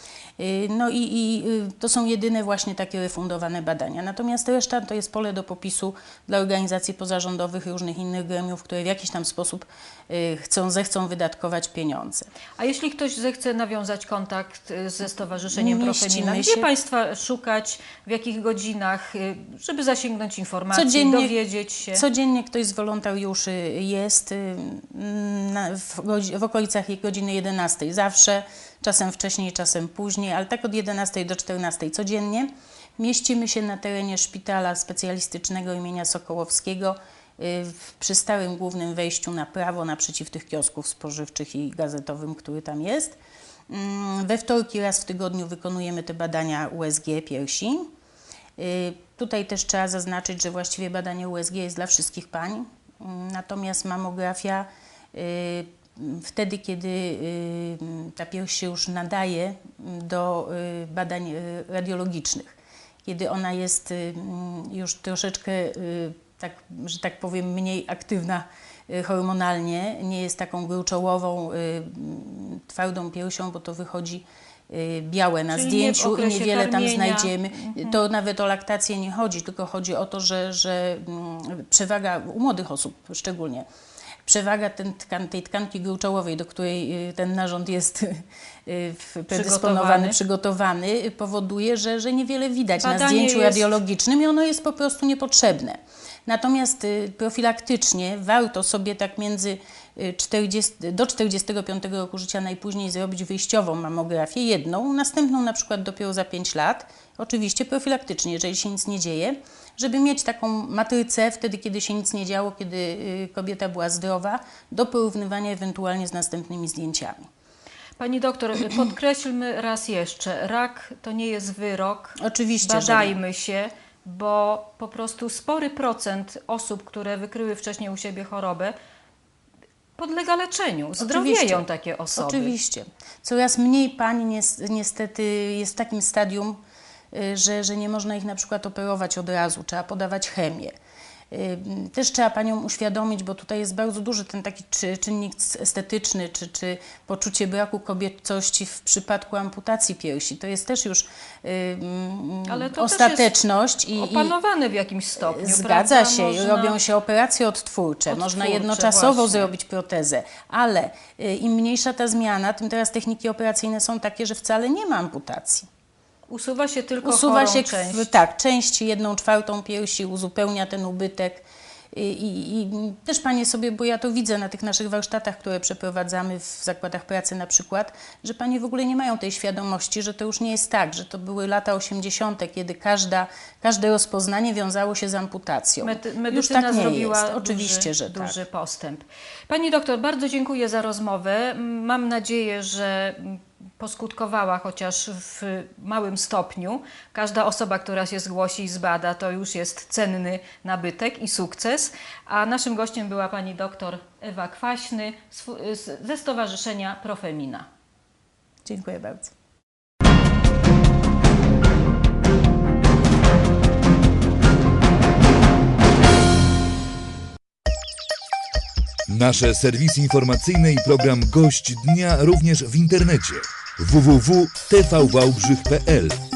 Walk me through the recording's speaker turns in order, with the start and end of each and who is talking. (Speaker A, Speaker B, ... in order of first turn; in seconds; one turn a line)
Speaker A: 0.4-12.3
Speaker B: 12.6-22.0
Speaker A: 15.5-16.7
Speaker A: 20.7-21.4
Speaker A: 21.9-43.1
Speaker A: 43.7-47.8
Speaker A: 48.6-83.7
Speaker B: 75.5-78.0
Speaker A: 84.2-117.3
Speaker B: 89.3-90.2
Speaker B: 92.8-93.8
Speaker B: 118.0-128.7
Speaker A: 122.2-123.2
Speaker B: 130.0-132.5
Speaker A: 131.0-136.6
Speaker A: 137.1-140.7
Speaker A: 141.3-154.3
Speaker B: 152.5-153.3
Speaker B: 153.9-156.8
Speaker A: 155.2-165.7
Speaker B: 158.1-159.5
Speaker B: 166.3-168.1
Speaker A: 167.0-188.4
Speaker B: 185.8-207.7
Speaker A: 208.7-209.3
Speaker C: 219.1-226.2